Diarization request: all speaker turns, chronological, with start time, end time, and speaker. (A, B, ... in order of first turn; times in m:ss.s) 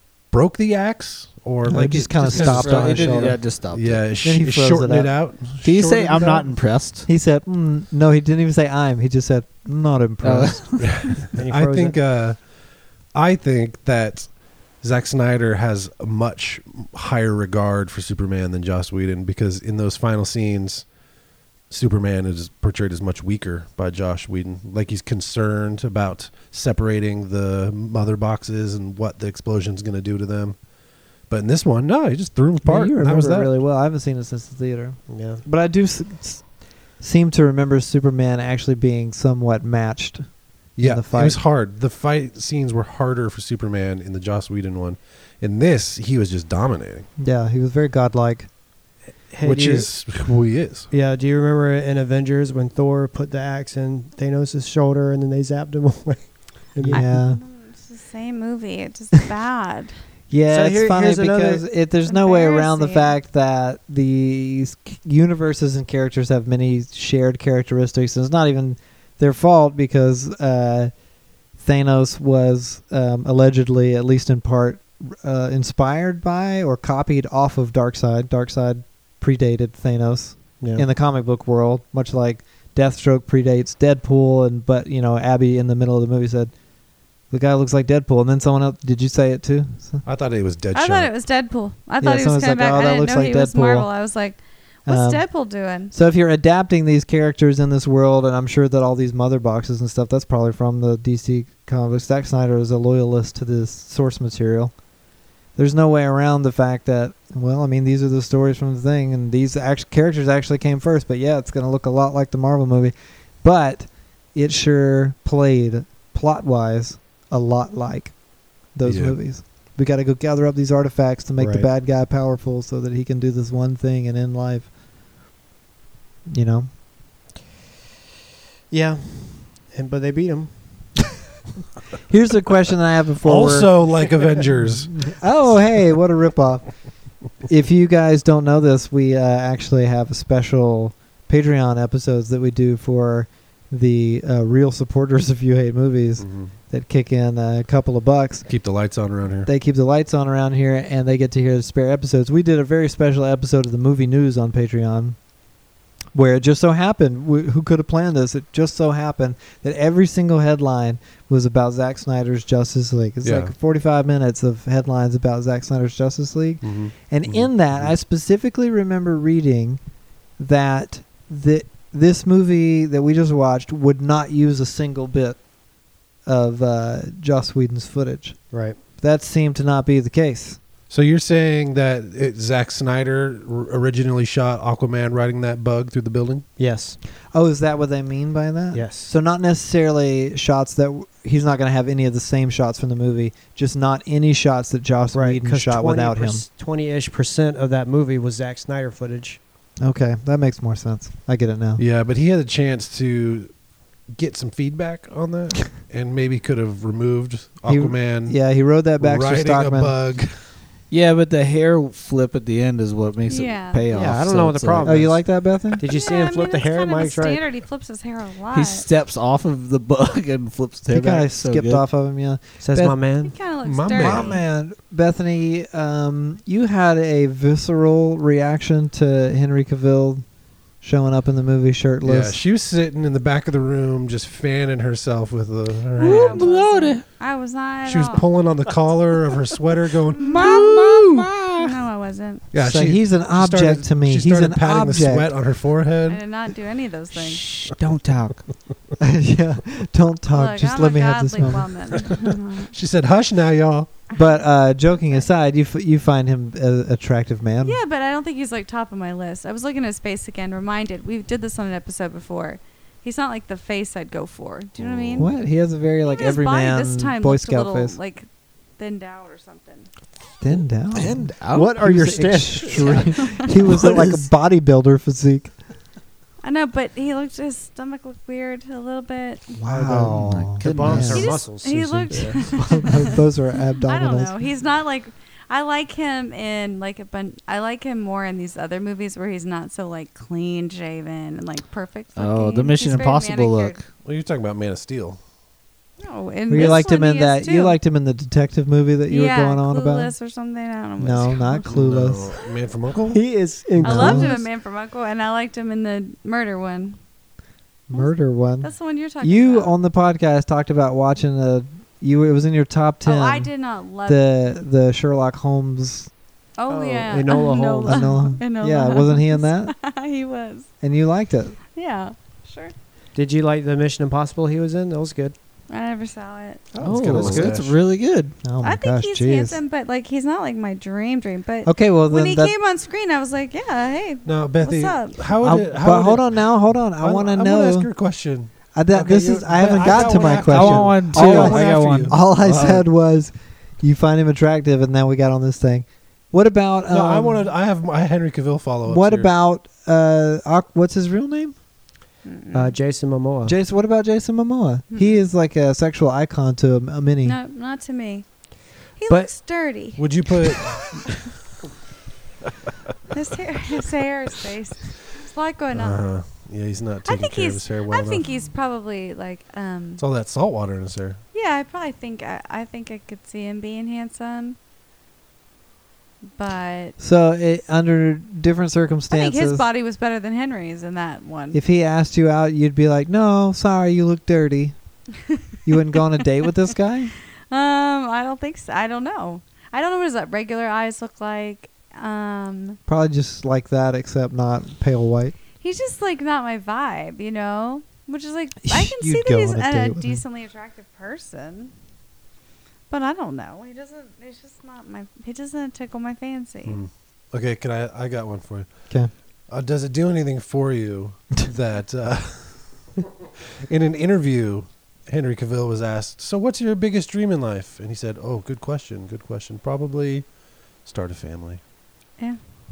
0:00.3-0:06.4 A
0:01.6-0:03.4 B
0:02.2-0:04.0 C
0:04.2-0:05.1 B
0:05.6-0:07.1 C
0:06.0-0:10.9 B
0:10.2-0:11.2 C
0:10.8-0:20.9 A
0:11.2-0:12.0 D
0:21.7-0:33.5 A
0:32.6-0:41.4 B
0:35.1-0:35.4 D
0:40.8-0:47.1 A
0:47.2-0:48.5 B
0:49.3-0:50.0 D
0:49.4-0:50.9 A
0:50.9-0:57.0 D
0:56.8-0:57.4 B
0:56.9-1:00.1 E
1:00.3-1:10.9 B
1:00.5-1:01.6 D
1:02.0-1:03.1 E
1:11.5-1:26.5 B
1:20.6-1:20.8 D
1:27.3-1:30.0 B
1:30.0-1:31.1 A
1:30.7-1:35.9 E
1:32.0-1:33.9 B
1:34.9-1:35.3 B
1:35.9-1:44.8 B
1:45.5-2:04.7 B
1:58.8-1:59.2 A
2:01.4-2:01.7 D
2:06.3-2:06.7 B
2:08.7-2:11.0 D
2:12.1-2:13.8 B
2:13.2-2:15.7 A
2:14.6-2:28.5 B
2:26.2-2:26.5 A
2:28.4-2:29.5 A
2:29.4-2:35.3 B
2:36.1-2:49.8 B
2:43.2-2:43.5 A
2:46.6-2:47.9 A
2:50.4-2:55.5 B
2:56.2-3:00.6 B
2:58.5-2:58.8 D
3:00.9-3:06.5 A
3:06.6-3:07.0 D
3:07.3-3:16.4 B
3:08.7-3:09.1 D
3:15.1-3:19.4 D
3:19.8-3:21.8 B
3:21.8-3:28.5 A
3:27.6-3:30.0 B
3:29.0-3:30.4 A
3:30.9-3:35.2 C
3:33.3-3:34.1 E
3:33.9-3:37.4 D
3:34.8-3:35.9 B
3:35.8-3:38.8 E
3:38.5-3:41.8 C
3:40.9-3:43.0 B
3:42.6-3:43.4 D
3:43.2-3:44.4 E
3:43.6-3:44.4 A
3:44.0-3:50.2 B
3:50.8-3:52.4 B
3:52.0-3:56.5 A
3:56.0-3:57.0 C
3:56.0-3:58.2 E
3:57.8-4:01.3 A
4:00.2-4:00.7 E
4:00.3-4:01.7 C
4:01.6-4:02.4 E
4:02.5-4:06.2 A
4:02.6-4:05.3 B
4:06.0-4:07.4 E
4:07.1-4:08.4 C
4:09.0-4:12.1 B
4:10.3-4:12.7 E
4:12.7-4:13.9 A
4:14.1-4:17.8 B
4:14.1-4:15.3 E
4:17.6-4:25.3 E
4:24.8-4:25.3 A
4:25.2-4:28.0 B
4:26.0-4:29.9 E
4:30.4-4:35.6 B
4:30.9-4:31.7 C
4:31.5-4:33.0 D
4:32.6-4:34.3 C
4:33.0-4:33.4 E
4:36.4-4:39.5 E
4:39.5-4:44.4 B
4:39.7-4:42.6 D
4:40.1-4:41.4 C
4:41.1-4:43.2 E
4:43.8-4:53.8 E
4:52.2-4:53.8 C
4:54.0-4:55.2 A
4:56.0-4:57.8 E
4:56.5-5:00.1 B
4:56.5-4:56.8 A
4:59.1-5:01.6 E
5:01.0-5:02.3 B
5:01.7-5:03.2 A
5:03.1-5:04.5 D
5:03.8-5:04.4 B
5:03.8-5:07.0 E
5:07.9-5:16.1 B
5:07.9-5:09.7 E
5:13.0-5:14.3 E
5:16.6-5:20.7 E
5:16.7-5:18.2 D
5:17.8-5:19.7 B
5:20.8-5:21.6 B
5:21.7-5:22.7 E
5:23.1-5:25.3 D
5:25.7-5:26.7 E
5:26.7-5:27.5 D
5:26.8-5:27.8 A
5:26.8-5:28.4 C
5:28.4-5:29.6 B
5:28.6-5:35.3 E
5:31.6-5:32.5 B
5:34.2-5:42.7 A
5:35.4-5:37.9 B
5:38.7-5:47.4 B
5:39.6-5:42.8 C
5:46.9-5:49.3 A
5:48.8-5:51.5 B
5:52.2-5:52.8 E
5:52.5-5:53.5 D
5:53.4-5:57.4 B
5:54.9-5:55.2 E
5:57.2-5:58.3 E
5:59.0-6:01.1 E
5:59.1-5:59.3 D
6:00.0-6:01.4 A
6:03.1-6:06.0 E
6:05.7-6:08.2 A
6:07.0-6:10.0 E
6:10.0-6:11.2 A
6:11.3-6:14.6 E
6:16.4-6:16.9 E
6:17.0-6:19.6 B
6:19.1-6:21.6 E
6:21.5-6:24.7 B
6:25.6-6:27.1 B
6:27.5-6:32.8 E
6:32.9-6:35.4 B
6:35.6-6:41.7 E
6:38.6-6:40.2 B
6:42.9-6:46.8 E
6:46.6-6:49.0 A
6:49.5-6:53.1 A
6:53.6-7:01.6 A